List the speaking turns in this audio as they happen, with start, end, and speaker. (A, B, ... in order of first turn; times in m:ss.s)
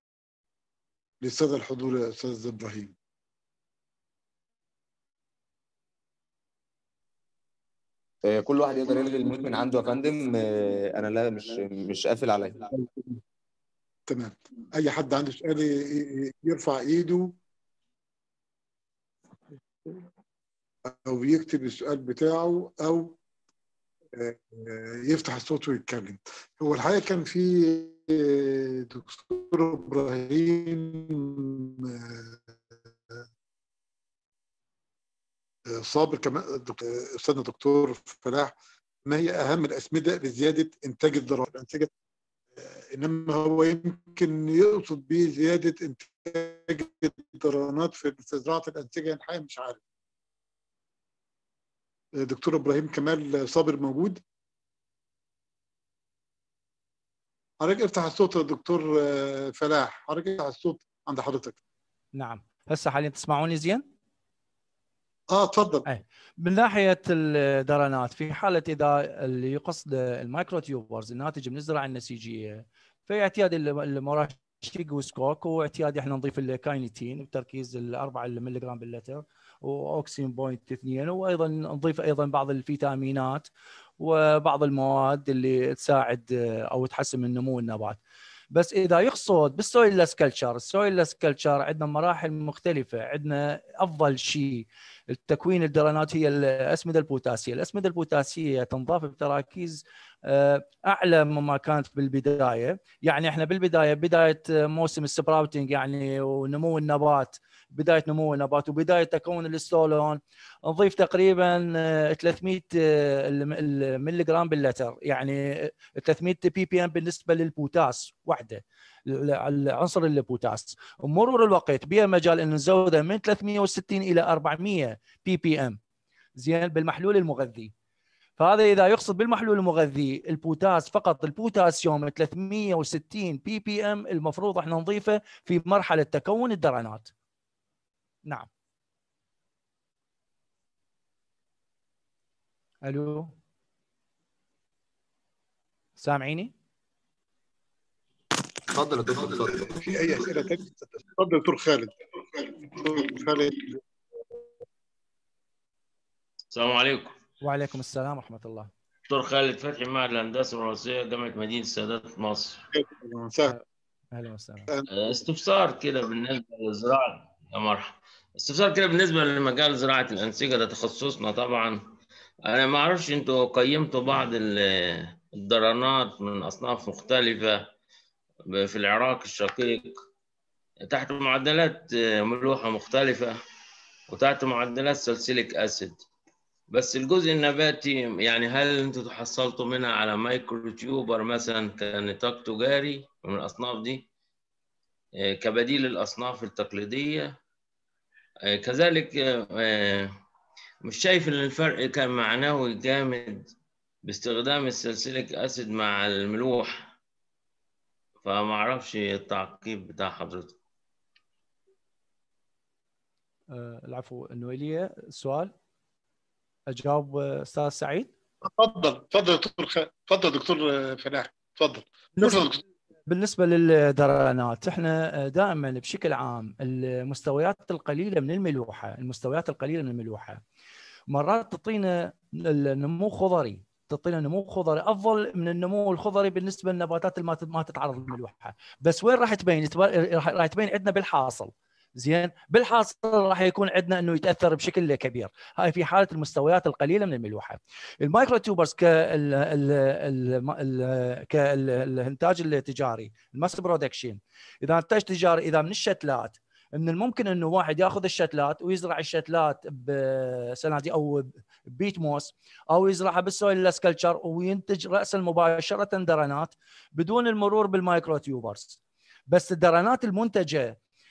0:01.2-0:02.9 A
0:08.3-0:12.7 B
0:14.1-0:17.3 A
0:20.8-0:23.2 A
0:24.1-0:32.4 A
0:35.7-0:38.5 A
0:39.0-0:41.9 A
0:42.6-0:49.8 A
0:52.2-0:54.2 A
0:57.6-1:01.6 A
1:02.1-1:03.8 C
1:05.3-1:05.8 A
1:05.8-1:28.0 C
1:28.5-2:05.8 C
2:06.4-2:07.7 C
2:08.4-2:17.1 C
2:22.8-2:23.3 C
2:26.0-2:26.5 C
2:28.7-2:29.5 B
2:29.5-2:31.9 A
2:32.6-2:33.8 A
2:36.5-2:37.1 D
2:37.4-2:38.7 C
2:39.1-2:42.6 D
2:42.7-2:43.5 A
2:44.1-2:44.7 C
2:44.9-2:51.8 D
2:52.4-2:57.6 D
2:58.5-2:59.9 D
3:00.9-3:03.3 D
3:04.1-3:06.0 D
3:06.7-3:14.0 D
3:15.2-3:17.3 D
3:18.5-3:20.1 D
3:20.8-3:23.4 D
3:24.0-3:26.9 D
3:28.2-3:30.6 D
3:33.5-3:35.5 C
3:36.7-3:38.1 C
3:38.4-3:42.6 A
3:42.2-3:42.5 C
3:43.1-3:50.4 C
3:51.1-4:30.8 C